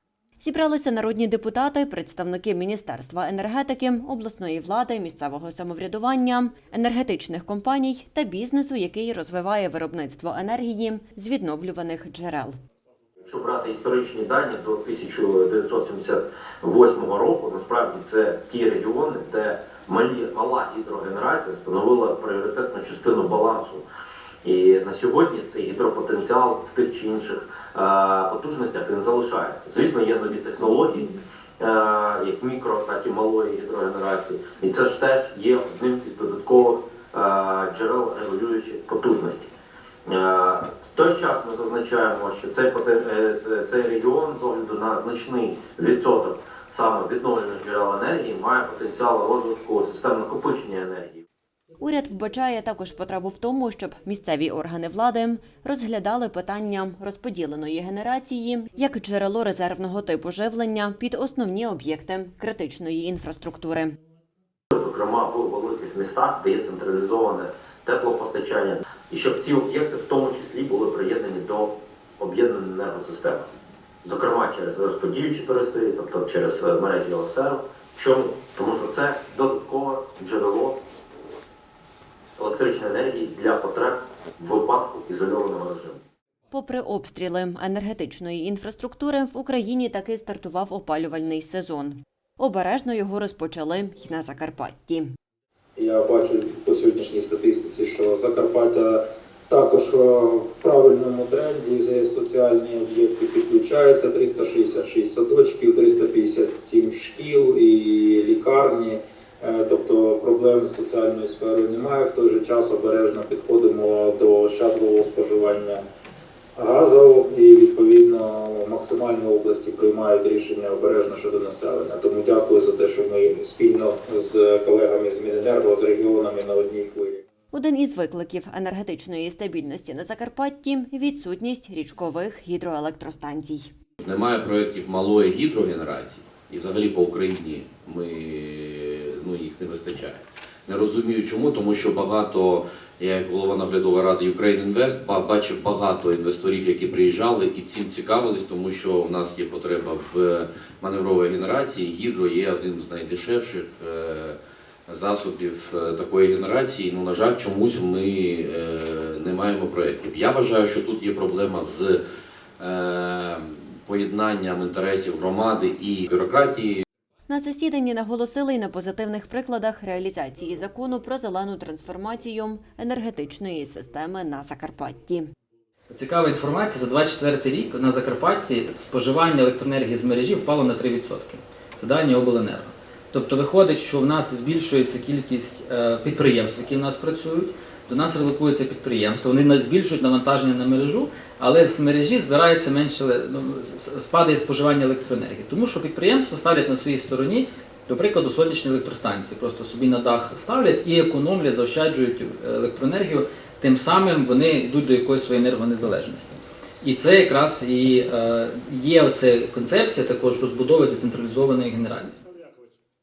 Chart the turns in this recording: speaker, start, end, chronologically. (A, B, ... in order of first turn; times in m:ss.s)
0:00.4-0:12.6 A
0:13.2-0:23.8 B
0:24.4-0:39.5 B
0:40.0-0:51.2 B
0:51.8-1:04.0 A
1:04.7-1:13.5 B
1:14.0-1:20.8 B
1:22.4-1:26.0 B
1:26.5-1:35.1 A
1:35.8-1:55.8 C
1:56.5-2:07.2 C
2:07.5-2:13.7 A
2:14.0-2:42.0 D
2:42.6-2:46.8 D
2:47.3-2:55.3 A
2:55.9-3:32.2 E